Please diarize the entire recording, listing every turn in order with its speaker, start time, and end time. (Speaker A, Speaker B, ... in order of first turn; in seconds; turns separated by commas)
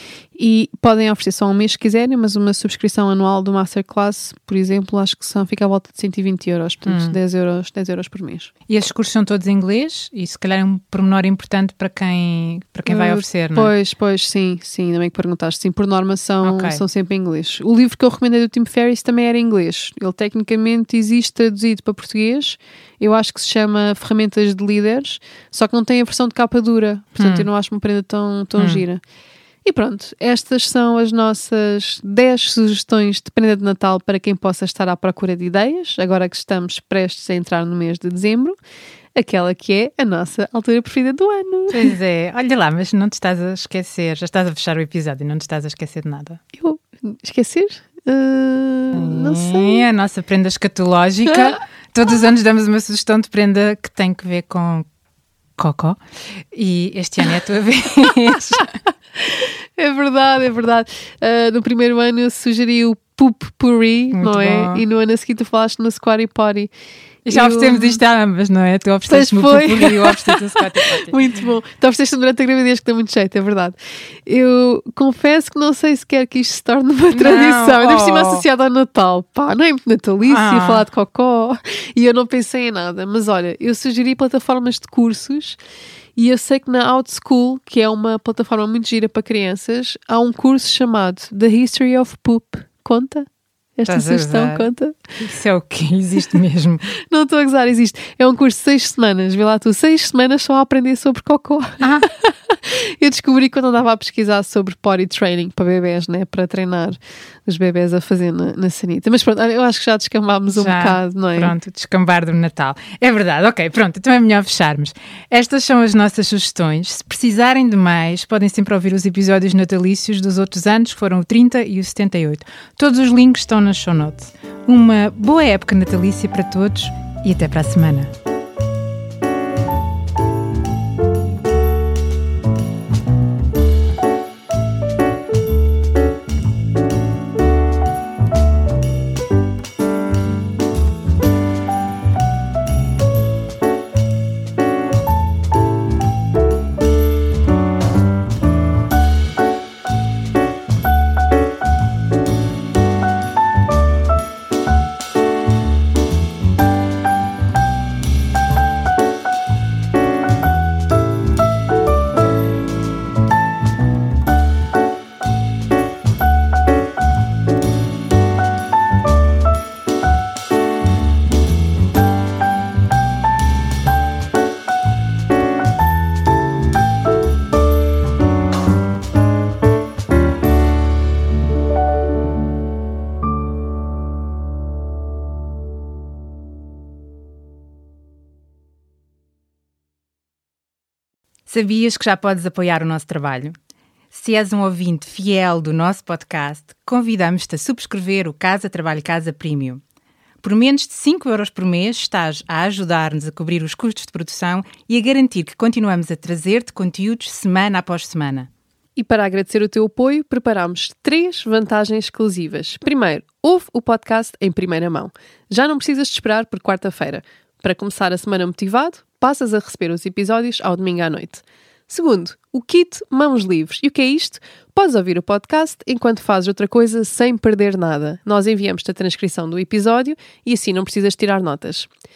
Speaker A: 0.3-8.5, Speaker B: 6.8-7.2, Speaker B: 8.7-13.7, Speaker A: 12.9-29.0, Speaker B: 16.4-16.8, Speaker B: 27.1-27.5, Speaker B: 28.6-28.8, Speaker A: 29.6-38.5, Speaker A: 39.1-41.9, Speaker B: 41.7-46.4, Speaker A: 46.6-49.9, Speaker B: 48.9-54.9, Speaker B: 55.6-56.0, Speaker B: 56.5-58.7, Speaker A: 58.3-66.7, Speaker B: 64.1-64.8, Speaker B: 67.2-71.2, Speaker A: 67.3-68.0, Speaker A: 69.1-85.6, Speaker B: 77.1-78.4, Speaker B: 80.3-80.8, Speaker A: 86.2-93.2, Speaker A: 93.8-95.0, Speaker B: 93.8-96.9, Speaker A: 97.1-111.5, Speaker B: 101.8-102.1, Speaker B: 110.5-128.1, Speaker B: 191.5-193.5, Speaker B: 194.1-199.8, Speaker B: 200.4-208.5, Speaker A: 208.9-231.9